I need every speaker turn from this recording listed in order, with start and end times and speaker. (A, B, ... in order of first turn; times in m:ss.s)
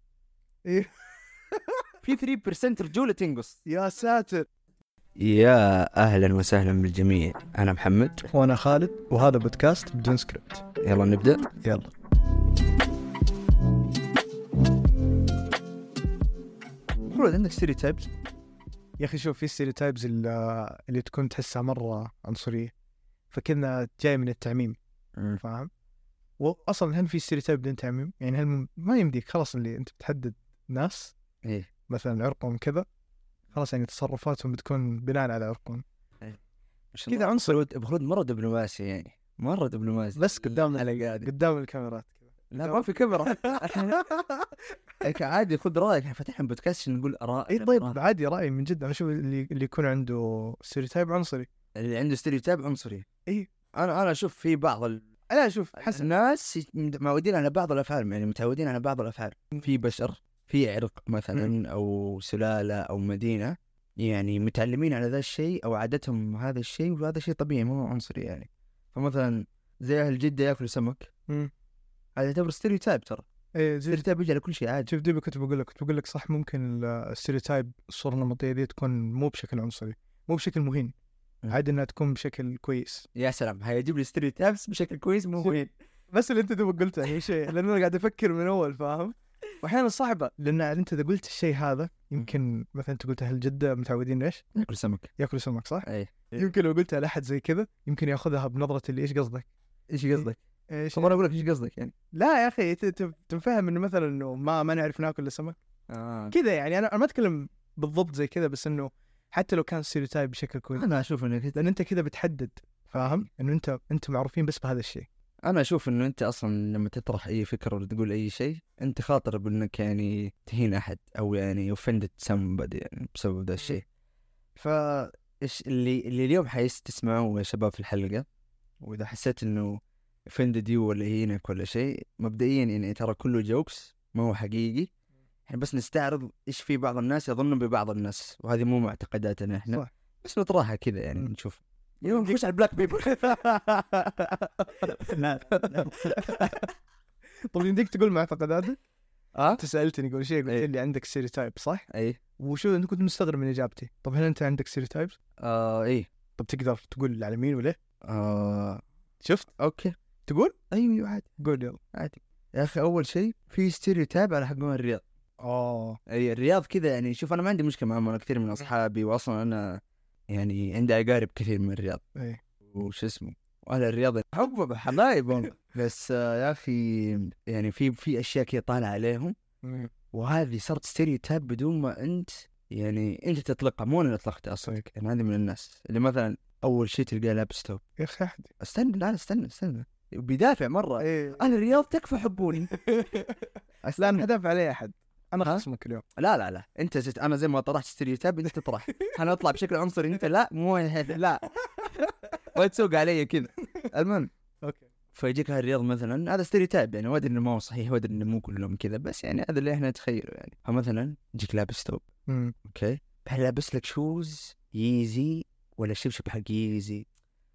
0:00.6-0:01.7 A
0:02.0-0:03.6 B
0:03.7-0:04.5 A
0:05.2-0:08.3 B
0:08.3-0:10.6 A
0:10.8-0:11.5 B
0:11.6-0:11.9 A
0:17.0-0:18.1 B
0:19.0-0:22.7 A
0:23.3-0:24.8 A
0:25.2-0:25.4 B
0:25.4-0:25.7 A
0:26.4-0:31.1 A
0:31.4-0:31.7 B
0:31.9-0:32.8 A
0:33.5-0:35.8 A
0:36.9-0:41.3 B
0:37.1-0:37.6 A
0:40.2-0:44.5 A
0:42.5-0:44.1 B
0:45.0-0:48.0 B
0:47.5-0:51.5 A
0:51.8-0:53.0 B
0:53.7-0:55.0 B
0:55.3-0:56.1 A
0:55.8-1:11.1 B
1:12.2-1:13.2 B
1:13.5-1:14.0 A
1:13.9-1:14.9 B
1:14.9-1:20.9 A
1:21.5-1:23.0 A
1:23.2-1:25.7 B
1:26.1-1:34.5 A
1:34.5-1:35.1 B
1:35.2-1:39.5 A
1:35.8-1:36.5 B
1:39.9-1:40.4 B
1:40.2-1:41.2 A
1:40.9-1:41.9 B
1:42.1-1:45.5 A
1:45.9-1:46.3 B
1:46.3-1:50.8 A
1:50.8-1:51.6 B
1:51.5-1:55.1 A
1:55.5-2:03.8 B
2:04.6-2:08.2 B
2:08.8-2:14.9 B
2:15.5-2:23.4 B
2:22.0-2:26.7 A
2:25.1-2:26.7 B
2:27.5-2:28.8 A
2:29.3-2:29.6 B
2:29.6-2:31.8 A
2:31.9-2:32.2 B
2:32.4-2:35.1 A
2:35.4-2:36.1 B
2:36.4-2:37.8 A
2:38.0-2:38.8 B
2:39.2-2:39.5 A
2:39.6-2:39.9 B
2:40.3-2:40.6 A
2:40.7-2:41.3 B
2:41.4-2:41.8 A
2:41.9-2:45.0 B
2:45.4-2:46.0 A
2:46.1-2:52.0 B
2:52.1-2:52.4 A
2:52.7-2:59.3 B
2:59.6-2:59.9 A
3:00.1-3:07.8 B
3:08.0-3:08.5 A
3:08.6-3:12.7 B
3:11.0-3:11.5 A
3:12.7-3:13.3 A
3:13.8-3:14.2 B
3:14.0-3:16.0 A
3:16.2-3:24.3 B
3:25.1-3:32.0 B
3:32.3-3:32.5 A
3:32.7-3:37.0 B